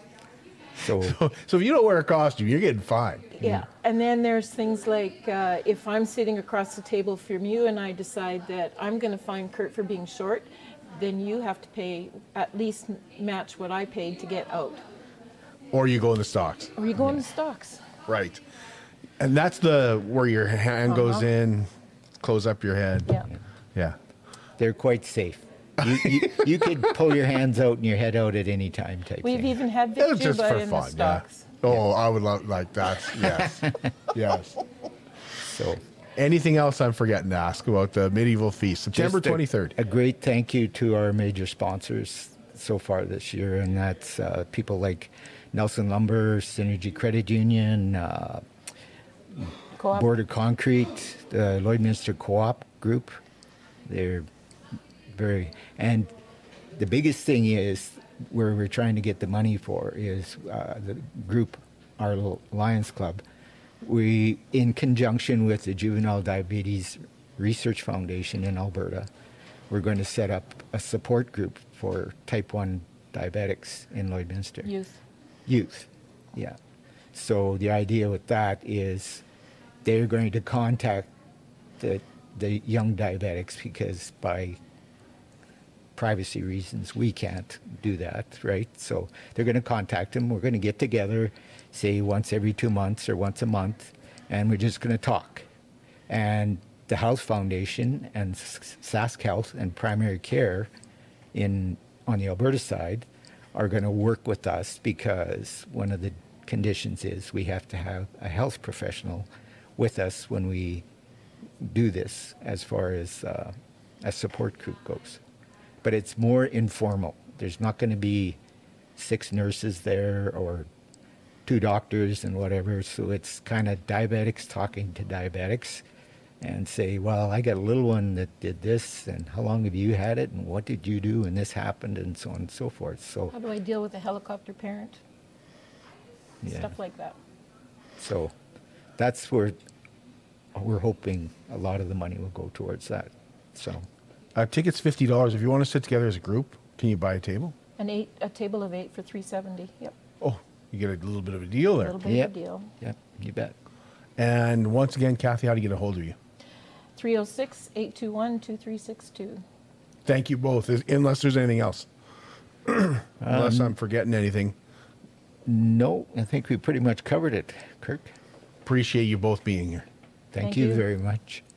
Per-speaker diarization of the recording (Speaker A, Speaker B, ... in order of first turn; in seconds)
Speaker A: 0.8-1.2, 3.4-3.7, 24.6-29.5, 33.3-33.7, 35.4-35.8, 38.9-48.4, 49.4-53.2, 53.9-54.3, 55.1-56.1, 56.7-63.2, 63.8-69.1, 69.7-74.7, 75.5-76.6, 77.1-79.2, 79.8-81.1, 81.8-84.6, 86.0-95.5, 96.1-100.7, 101.3-110.8, 111.6-115.2, 115.8-118.4, 119.0-120.7, 121.5-125.8, 126.4-133.3, 136.4-136.7, 138.0-138.3, 139.0-139.6, 140.5-143.9, 152.0-153.5, 163.2-163.7, 165.4-168.1, 170.3-171.4
Speaker B: 1.0-3.3, 15.7-16.7, 18.1-18.4, 19.2-21.7, 22.2-23.2, 25.8-26.8, 30.0-34.6, 36.2-39.8, 144.3-147.5, 150.2-152.0, 154.2-156.2, 160.1-161.9, 162.7-164.6, 168.6-169.8
Speaker C: 3.3-14.8, 16.8-17.8, 20.9-21.3, 29.2-31.6, 49.8-50.1, 74.6-75.0, 133.3-135.0, 136.4-137.2, 147.8-149.9, 151.8-152.7, 156.9-159.4, 170.4-170.8